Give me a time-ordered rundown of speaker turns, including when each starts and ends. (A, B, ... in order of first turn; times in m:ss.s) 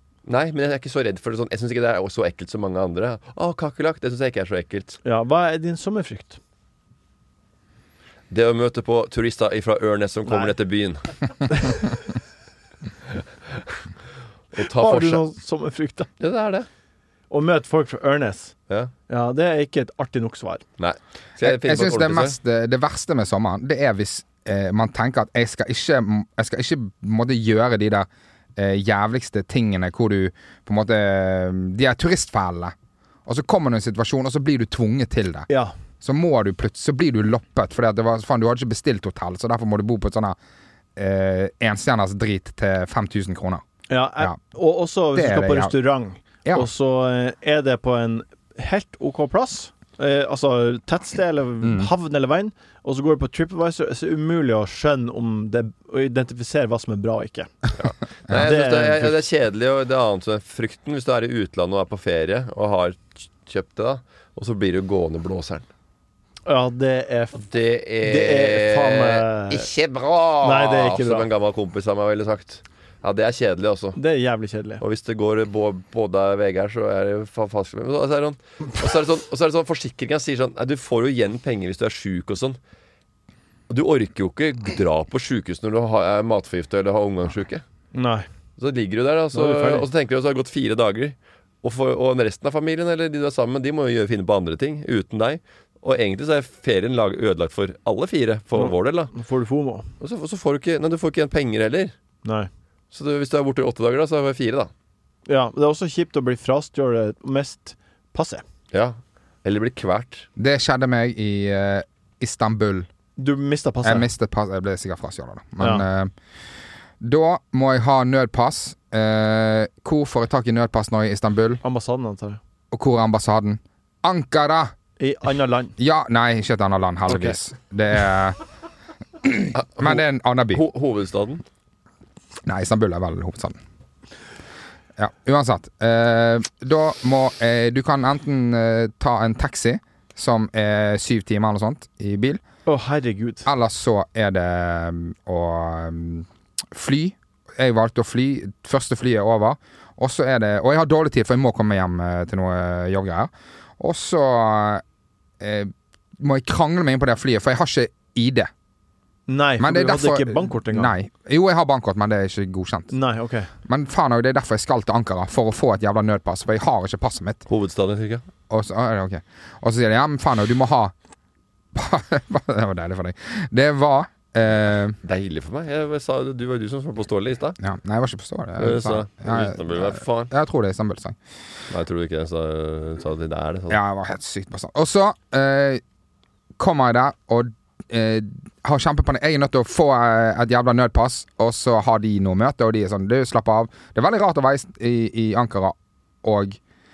0:00.2-0:05.0 A
0:05.0-0:06.4 B
0:08.3-0:11.7 A
0:10.2-0:10.5 B
0:14.5-0:15.2 A
0:14.8-0:16.1 B
0:16.2-0:16.7 A
0:17.3-0:18.5 B
0:19.1-0:20.6 B
0:20.8-0:22.4 A
0:21.4-0:32.7 C
0:33.2-0:35.5 C
0:35.5-0:35.7 B
0:36.0-0:40.4 C
0:41.0-0:43.6 C
0:43.9-0:57.5 B
0:45.1-0:45.8 C
0:51.6-0:51.9 C
0:57.8-1:05.6 A
0:58.3-0:59.2 B
1:06.4-1:07.5 B
1:07.5-1:14.0 A
1:08.0-1:09.7 B
1:10.4-1:11.3 B
1:14.0-1:14.8 B
1:14.8-1:22.6 A
1:23.7-1:27.6 A
1:27.9-1:28.2 B
1:28.6-1:39.1 A
1:29.3-1:29.9 B
1:38.5-1:39.9 B
1:40.0-1:41.9 A
1:42.2-1:42.5 B
1:42.9-1:44.7 A
1:45.3-1:48.4 B
1:48.7-1:50.3 A
1:50.4-1:52.9 C
1:53.2-1:54.1 B
1:53.8-1:56.1 C
1:55.6-1:55.8 B
1:57.0-2:01.6 C
2:01.6-2:02.4 B
2:02.7-2:04.7 C
2:05.0-2:05.7 B
2:05.8-2:08.4 C
2:07.1-2:07.4 B
2:09.2-2:10.6 C
2:09.5-2:11.4 A
2:12.4-2:13.6 C
2:15.0-2:22.4 C
2:22.6-2:23.5 B
2:23.4-2:34.8 C
2:35.4-2:38.5 C
2:39.3-2:40.9 B
2:39.6-2:42.9 C
2:42.9-2:43.5 B
2:43.6-2:47.4 C
2:47.5-2:48.2 A
2:48.5-2:50.9 C
2:51.7-2:55.0 C
2:55.0-2:57.6 A
2:57.6-3:01.2 C
2:58.6-3:00.3 A
3:01.7-3:03.8 A
3:03.7-3:05.8 C
3:06.6-3:16.6 C